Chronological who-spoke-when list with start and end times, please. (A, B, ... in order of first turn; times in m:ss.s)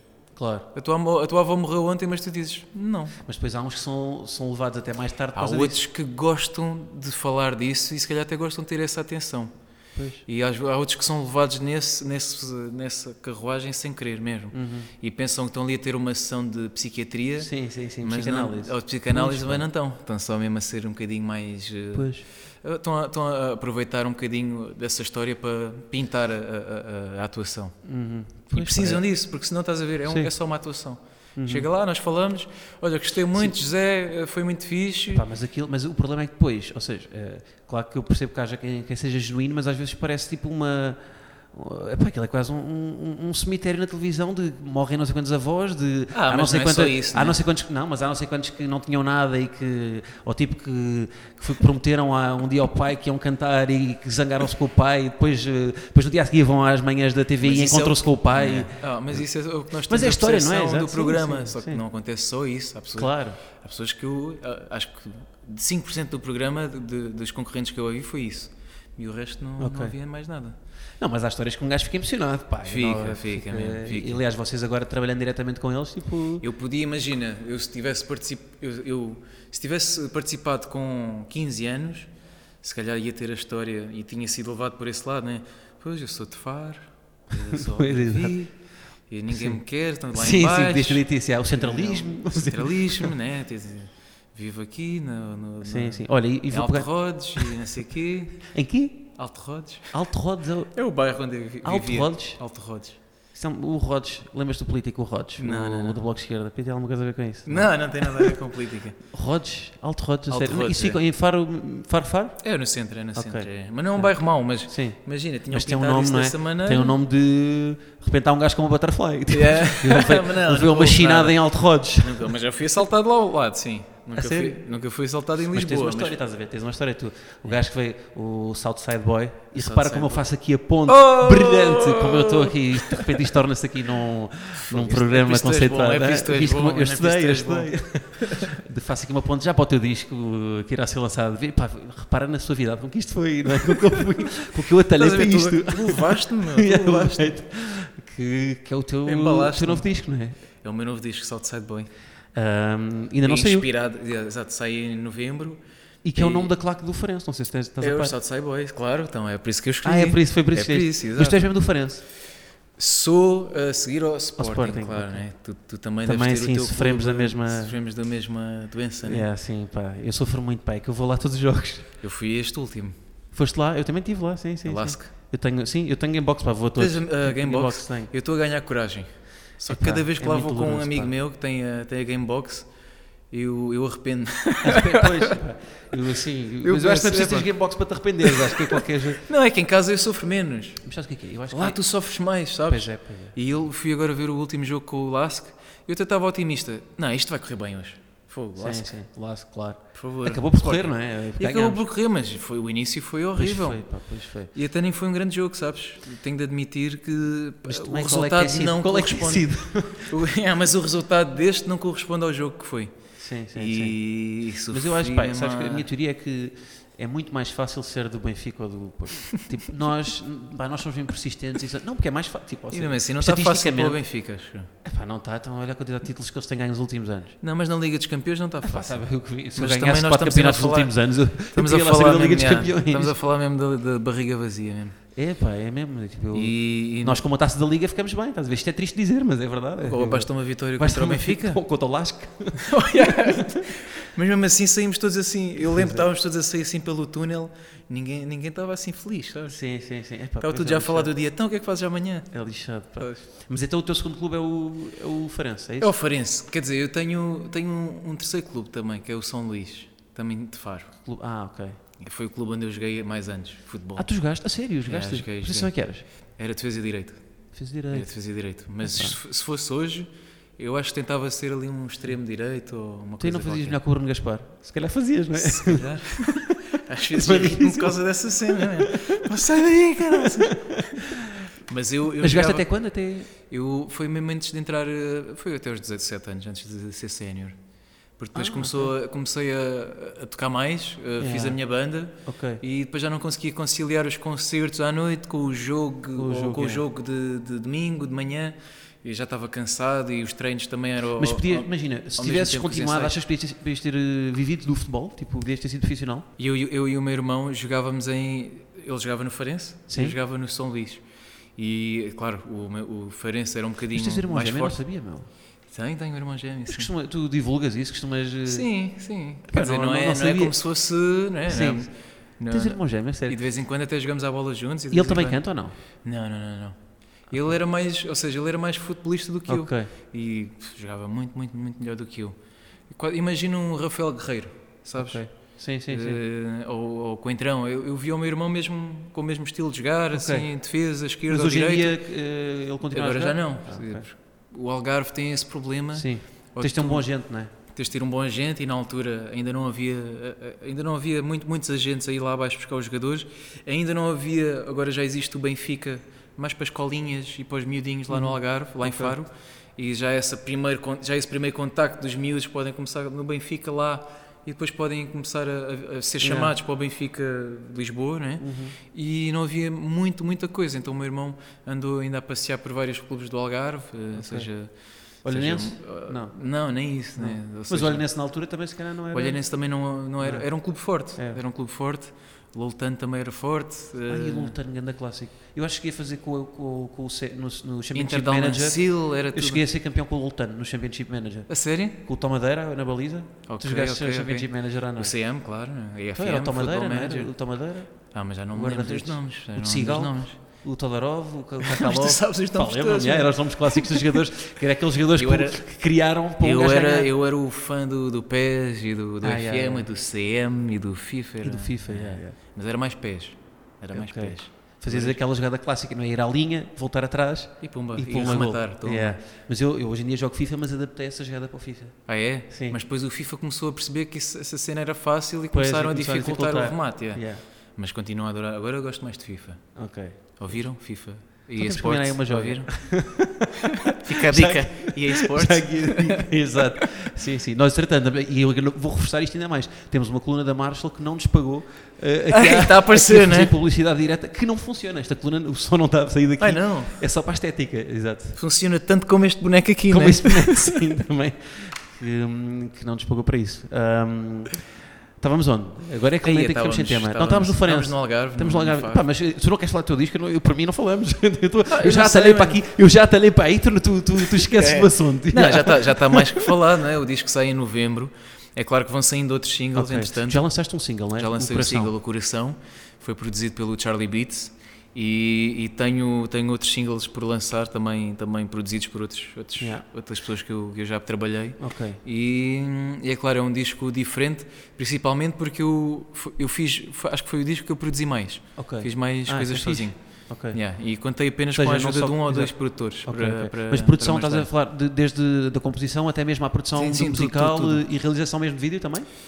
0:00.4-0:00.7 A
0:00.7-0:03.1 B
0:03.2-0:05.8 A
0:05.3-0:09.5 B
0:10.0-0:10.2 A
0:10.2-0:17.5 B
0:14.5-0:14.9 A
0:17.4-0:19.6 A
0:18.0-0:27.8 B
0:21.9-0:22.2 A
0:27.8-0:29.0 A
0:28.5-0:35.2 B
0:31.4-0:31.7 A
0:35.1-0:41.0 A
0:41.5-0:59.2 A
0:46.1-0:47.4 B
0:57.4-1:10.6 B
0:59.9-1:01.8 A
1:03.0-1:03.4 A
1:09.6-1:10.0 A
1:11.0-1:16.4 A
1:12.6-1:14.2 B
1:16.4-1:22.1 B
1:22.6-1:28.6 B
1:27.5-1:28.4 A
1:29.1-1:38.5 B
1:29.3-1:29.6 A
1:30.1-1:33.1 A
1:35.6-1:37.6 A
1:38.5-1:39.2 A
1:39.2-1:40.0 B
1:39.9-1:40.7 A
1:40.7-1:43.0 B
1:41.6-1:42.4 A
1:43.3-1:48.4 A
1:45.4-1:46.0 B
1:47.4-1:49.0 B
1:49.1-1:52.4 A
1:50.3-1:51.0 B
1:52.4-1:56.9 B
1:53.1-2:02.3 A
1:59.3-2:01.4 B
2:02.0-2:06.2 B
2:04.1-2:04.6 A
2:05.5-2:30.3 A
2:09.5-2:10.2 B
2:10.8-2:13.3 B
2:14.6-2:18.6 B
2:24.9-2:27.3 B
2:29.0-2:29.9 B
2:30.6-2:31.9 B
2:32.3-2:33.7 A
2:33.2-2:35.6 B
2:36.0-2:38.1 A
2:36.1-2:36.5 B
2:37.8-2:41.4 B
2:39.8-2:42.0 A
2:42.8-2:49.2 B
2:44.4-2:45.2 A
2:46.0-2:47.7 A
2:49.0-2:51.9 A
2:52.0-2:52.9 B
2:53.3-2:58.1 A
2:54.6-2:55.1 B
2:56.8-3:02.7 B
2:59.7-3:01.1 A
3:03.3-3:05.3 B
3:04.6-3:09.2 A
3:06.6-3:07.5 B
3:08.2-3:10.8 B
3:10.8-3:11.8 A
3:11.5-3:18.9 B
3:12.7-3:13.4 A
3:18.6-3:21.8 A
3:19.9-3:23.9 B
3:23.4-3:24.5 A
3:24.5-3:33.0 B
3:27.6-3:30.1 A
3:33.2-3:34.0 A
3:33.5-3:35.9 B
3:34.7-3:44.0 A
3:42.7-3:44.7 B
3:44.8-3:47.4 A
3:47.4-3:50.9 B
3:48.6-3:53.1 A
3:51.5-3:55.0 B
3:55.1-4:03.6 A
3:56.3-3:57.2 B
3:59.8-4:01.6 B
4:02.6-4:09.6 B
4:05.6-4:06.0 A
4:09.5-4:11.1 A
4:10.4-4:12.3 B
4:12.3-4:15.9 A
4:13.0-4:13.2 B
4:15.8-4:20.9 B
4:21.0-4:21.8 A
4:22.0-4:24.1 B
4:24.0-4:26.0 A
4:24.8-4:25.7 B
4:26.3-4:27.2 B
4:27.5-4:28.1 A
4:27.9-4:33.8 B
4:28.8-4:29.2 A
4:33.2-4:36.6 A
4:35.3-4:42.7 B
4:37.1-4:39.2 A
4:40.0-4:41.3 A
4:42.2-4:43.3 A
4:43.4-4:47.6 B
4:48.2-5:03.2 B
4:48.3-4:48.9 A
4:51.2-4:51.6 A
4:52.2-4:52.6 A
4:56.2-4:56.8 A
5:01.2-5:06.3 A
5:06.4-5:11.0 B
5:09.9-5:10.2 A
5:11.6-5:14.8 B
5:13.9-5:15.3 A
5:15.7-5:16.9 B
5:16.7-5:18.7 A
5:18.5-5:25.4 B
5:19.5-5:20.6 A
5:21.4-5:21.9 A
5:22.5-5:23.4 A
5:24.9-5:25.7 A
5:26.0-5:32.3 B
5:29.5-5:29.9 A
5:32.9-5:35.3 B
5:35.0-5:36.2 A
5:35.9-5:42.0 B
5:40.1-5:40.5 A
5:41.3-5:44.0 A
5:42.9-6:18.0 B
5:45.9-5:47.5 A
5:58.1-5:59.2 A
6:06.2-6:06.5 A
6:08.4-6:08.8 A
6:14.1-6:14.5 A
6:15.2-6:16.4 A
6:17.2-6:19.4 A
6:19.1-6:24.5 B
6:20.2-6:21.4 A
6:24.1-6:35.1 A
6:27.9-6:29.6 B
6:31.5-6:32.0 B
6:33.5-6:37.3 B
6:36.1-6:47.1 A
6:38.1-6:40.4 B
6:41.6-6:44.2 B
6:45.2-6:45.6 B
6:46.4-6:55.2 B
6:49.2-6:49.9 A
6:51.4-6:52.4 A
6:53.9-7:02.8 A
6:57.6-6:59.2 B
7:02.1-7:09.8 B
7:05.5-7:07.4 A
7:09.8-7:10.6 A
7:10.4-7:12.7 B
7:11.6-7:28.4 A
7:13.8-7:16.8 B
7:22.3-7:23.6 B
7:26.4-7:27.0 B
7:28.4-7:30.8 B
7:29.9-7:46.5 A
7:36.2-7:39.0 B
7:41.7-7:42.6 B
7:44.3-7:50.4 B
7:49.7-7:51.9 A
7:51.2-8:14.5 B
7:59.6-7:59.8 A
8:01.6-8:02.0 A
8:08.6-8:10.6 A
8:11.5-8:19.1 A
8:16.8-8:17.8 B